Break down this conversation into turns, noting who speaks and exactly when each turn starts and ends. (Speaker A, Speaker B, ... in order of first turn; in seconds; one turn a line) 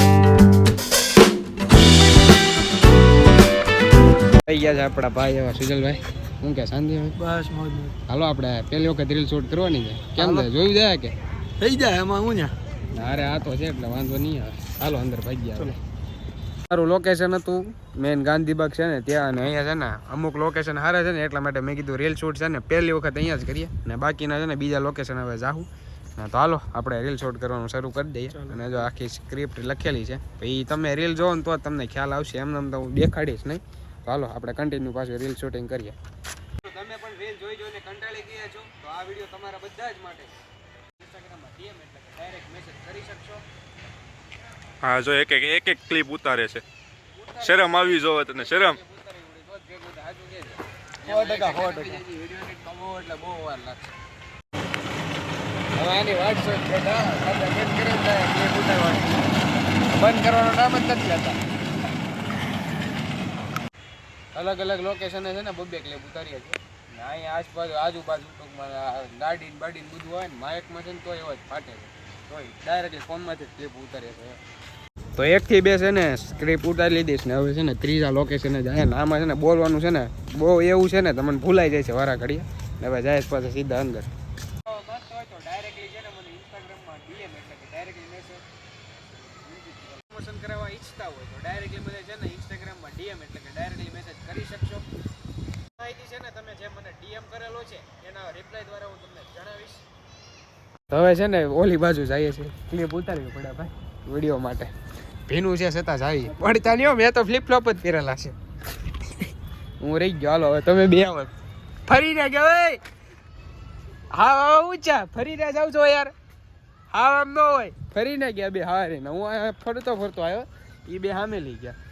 Speaker A: 4.5-7.2
Speaker B: 7.2-8.0
Speaker A: 8.1-11.2
Speaker B: 10.2-10.4
Speaker B: 11.6-12.6
Speaker A: 12.9-15.8
Speaker A: 16.7-36.0
Speaker C: 28.4-28.9
Speaker A: 36.6-40.4
Speaker A: 41.0-43.4
Speaker C: 44.8-46.6
Speaker A: 47.2-53.9
Speaker C: 47.4-48.8
Speaker C: 51.1-52.0
Speaker A: 55.7-61.4
Speaker A: 64.3-74.4
Speaker A: 75.2-84.1
Speaker A: 84.6-88.5
Speaker A: 89.0-94.9
Speaker A: 95.8-99.8
Speaker A: 100.9-104.7
Speaker A: 105.3-108.4
Speaker A: 109.0-109.3
Speaker A: 109.8-111.3
Speaker A: 111.9-112.8
Speaker A: 114.1-116.1
Speaker A: 116.9-121.8